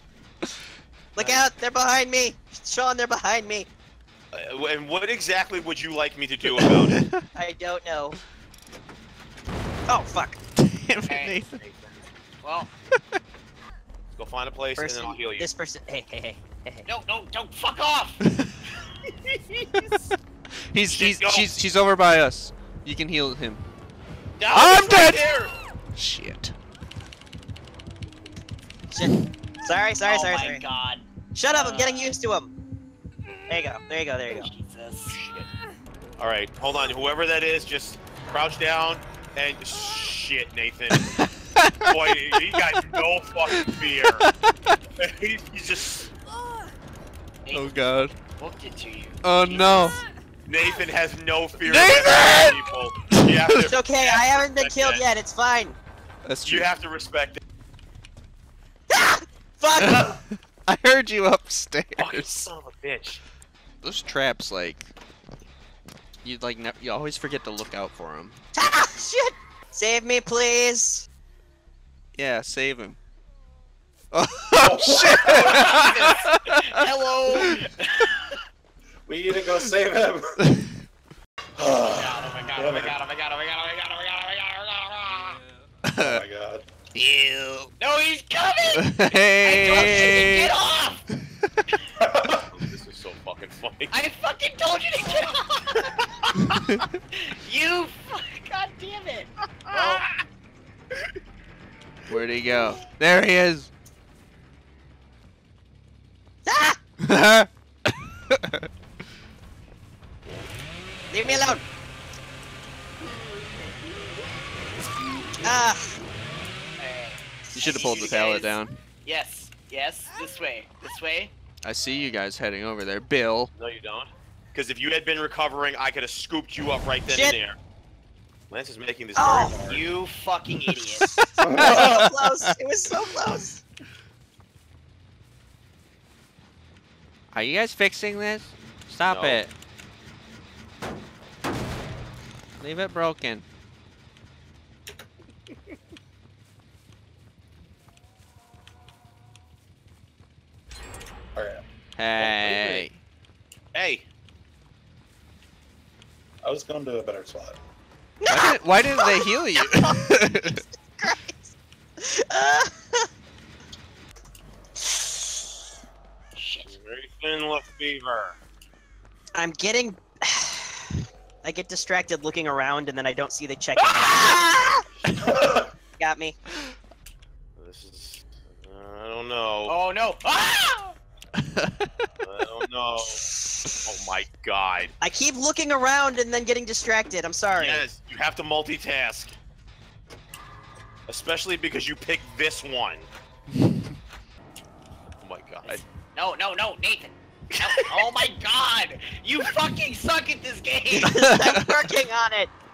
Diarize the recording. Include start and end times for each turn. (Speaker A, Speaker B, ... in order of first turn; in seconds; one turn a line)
Speaker A: 1.1-3.7
Speaker B: 4.3-7.0
Speaker C: 6.5-7.2
Speaker A: 7.4-8.2
Speaker A: 9.9-10.4
Speaker C: 10.6-11.6
Speaker D: 11.1-11.4
Speaker D: 12.4-12.7
Speaker B: 14.2-15.5
Speaker A: 14.8-16.9
Speaker D: 16.9-18.2
Speaker C: 18.2-18.5
Speaker D: 19.6-19.9
Speaker C: 20.7-23.6
Speaker B: 20.9-21.5
Speaker B: 24.4-25.5
Speaker C: 24.5-25.3
Speaker C: 25.9-26.6
Speaker A: 28.9-30.6
Speaker D: 30.0-32.1
Speaker A: 31.4-32.5
Speaker A: 33.5-34.5
Speaker D: 34.3-35.5
Speaker B: 36.2-41.1
Speaker C: 40.9-42.0
Speaker B: 41.9-44.2
Speaker C: 43.5-44.8
Speaker B: 45.0-46.0
Speaker D: 47.5-47.8
Speaker C: 47.5-48.2
Speaker D: 48.3-50.0
Speaker C: 49.2-50.0
Speaker B: 50.5-55.0
Speaker C: 51.6-53.7
Speaker A: 53.7-55.8
Speaker C: 56.2-56.7
Speaker B: 56.5-57.4
Speaker A: 58.9-60.1
Speaker C: 59.8-62.5
Speaker B: 62.0-63.2
Speaker C: 63.8-64.9
Speaker C: 66.2-68.4
Speaker A: 68.6-71.1
Speaker C: 72.2-73.0
Speaker C: 74.1-76.9
Speaker E: 74.6-75.4
Speaker D: 75.2-78.4
Speaker E: 79.1-80.4
Speaker C: 80.4-80.7
Speaker E: 81.6-83.0
Speaker D: 81.9-85.4
Speaker C: 85.9-86.2
Speaker E: 86.0-86.7
Speaker C: 87.0-87.7
Speaker D: 87.8-91.0
Speaker C: 88.8-90.5
Speaker E: 92.0-92.3
Speaker B: 92.5-93.9
Speaker D: 93.9-96.5
Speaker D: 97.2-100.2
Speaker C: 102.1-103.7
Speaker A: 106.5-106.8
Speaker C: 107.0-108.7
Speaker A: 111.1-111.6
Speaker D: 111.2-111.5
Speaker A: 115.4-116.0
Speaker D: 116.8-121.3
Speaker A: 117.5-118.1
Speaker C: 117.5-118.8
Speaker C: 121.7-123.5
Speaker B: 123.5-127.6
Speaker A: 127.1-127.4
Speaker B: 128.5-129.9
Speaker A: 129.2-129.6
Speaker D: 129.6-131.1
Speaker C: 131.0-132.5
Speaker A: 131.6-133.6
Speaker C: 137.3-139.5
Speaker B: 139.1-139.4
Speaker C: 142.6-143.4
Speaker E: 151.3-151.6
Speaker C: 152.0-153.0
Speaker B: 152.2-152.8
Speaker B: 153.7-154.1
Speaker E: 156.4-157.6
Speaker A: 158.2-163.1
Speaker C: 158.3-160.6
Speaker D: 166.4-166.7
Speaker B: 166.7-168.3
Speaker A: 169.3-174.8
Speaker E: 175.3-175.7
Speaker A: 176.0-176.4
Speaker B: 177.6-179.8
Speaker D: 179.7-181.0
Speaker C: 181.4-182.1
Speaker B: 182.2-183.2
Speaker B: 183.8-184.9
Speaker A: 185.0-187.8
Speaker B: 187.6-189.3
Speaker B: 191.1-193.1
Speaker B: 195.2-195.8
Speaker D: 195.6-201.1
Speaker A: 200.9-202.5
Speaker C: 201.2-201.7